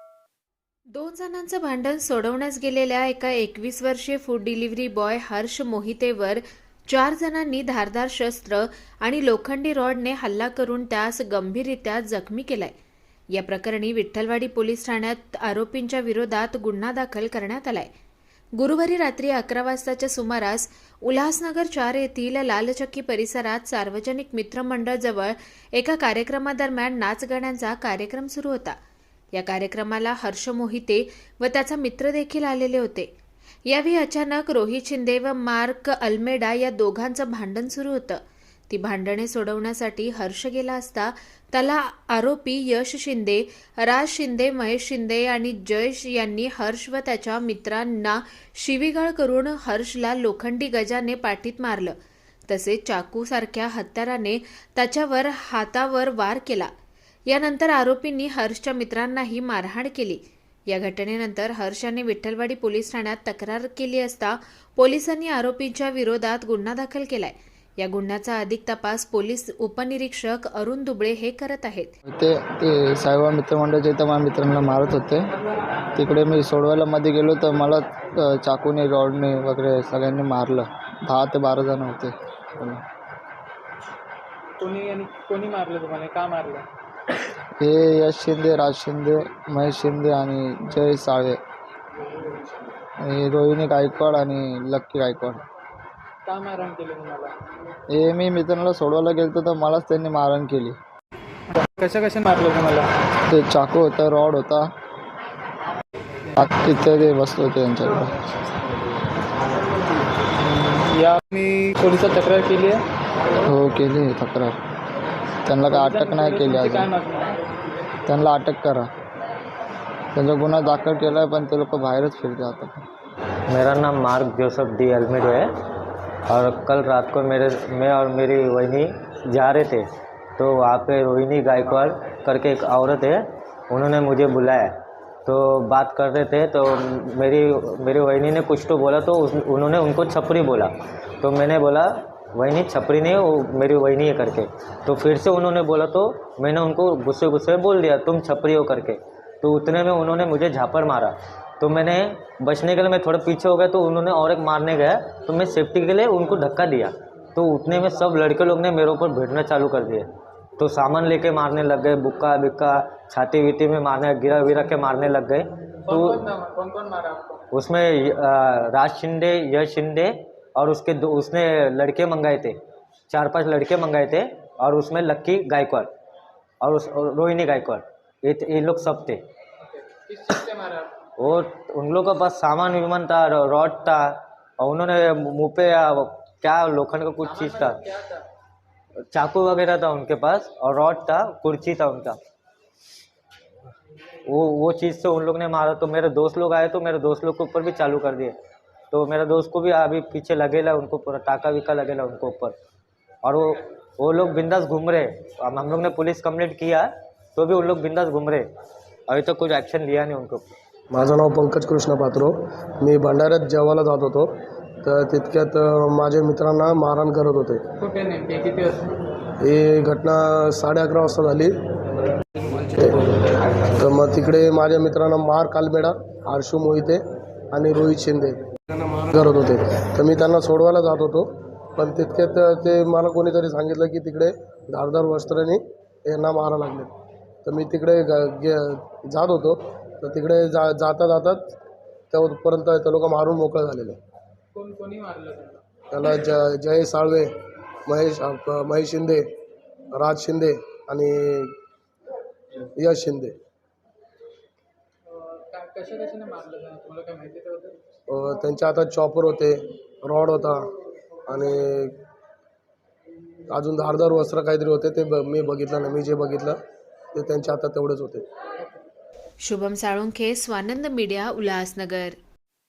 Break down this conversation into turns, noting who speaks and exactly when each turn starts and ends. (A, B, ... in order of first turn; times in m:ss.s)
0:01.0-0:12.7 A
0:13.4-0:17.9 A
0:18.6-0:28.8 A
0:29.3-0:33.1 A
0:33.7-0:52.0 A
0:52.5-0:56.7 A
0:57.3-1:11.9 A
1:12.1-1:15.2 B
1:16.0-1:22.8 B
1:24.6-1:26.7 C
1:27.6-1:31.4 B
1:33.0-1:35.4 B
1:36.3-1:37.3 C
1:37.9-1:40.8 B
1:41.5-1:42.9 C
1:43.3-1:44.7 B
1:46.4-1:48.2 B
1:50.6-1:52.8 C
1:53.4-1:54.6 B
1:55.5-1:56.9 B
1:55.7-1:57.4 C
1:58.1-1:58.9 B
2:00.1-2:02.8 B
2:03.5-2:05.5 D
2:06.3-2:09.9 D
2:10.4-2:14.7 D
2:15.3-2:46.2 D
2:45.9-2:47.4 C
2:47.5-2:52.6 D
2:53.1-2:55.9 D
2:56.6-2:59.2 D
2:59.6-3:00.9 C
3:01.2-3:07.8 D
3:07.2-3:08.2 C
3:09.1-3:12.2 D
3:14.3-3:18.4 D
3:18.9-3:22.6 D
3:23.2-3:28.5 D
3:29.1-3:30.5 D
3:30.9-3:34.3 E
3:34.8-3:37.6 E
3:37.8-3:39.0 C
3:39.4-3:41.5 E
3:42.7-3:43.1 E
3:43.7-3:47.0 E
3:47.5-3:48.4 E
3:49.0-3:56.9 E
3:57.4-4:01.4 E
4:02.1-4:04.0 E
4:04.5-4:05.6 C
4:05.9-4:07.3 E
4:07.9-4:09.2 E
4:09.9-4:11.5 E
4:12.8-4:13.4 E
4:15.1-4:17.8 C
4:18.1-4:20.6 E
4:21.3-4:21.9 E
4:23.5-4:26.6 E
4:27.1-4:28.3 E
4:29.5-4:32.2 A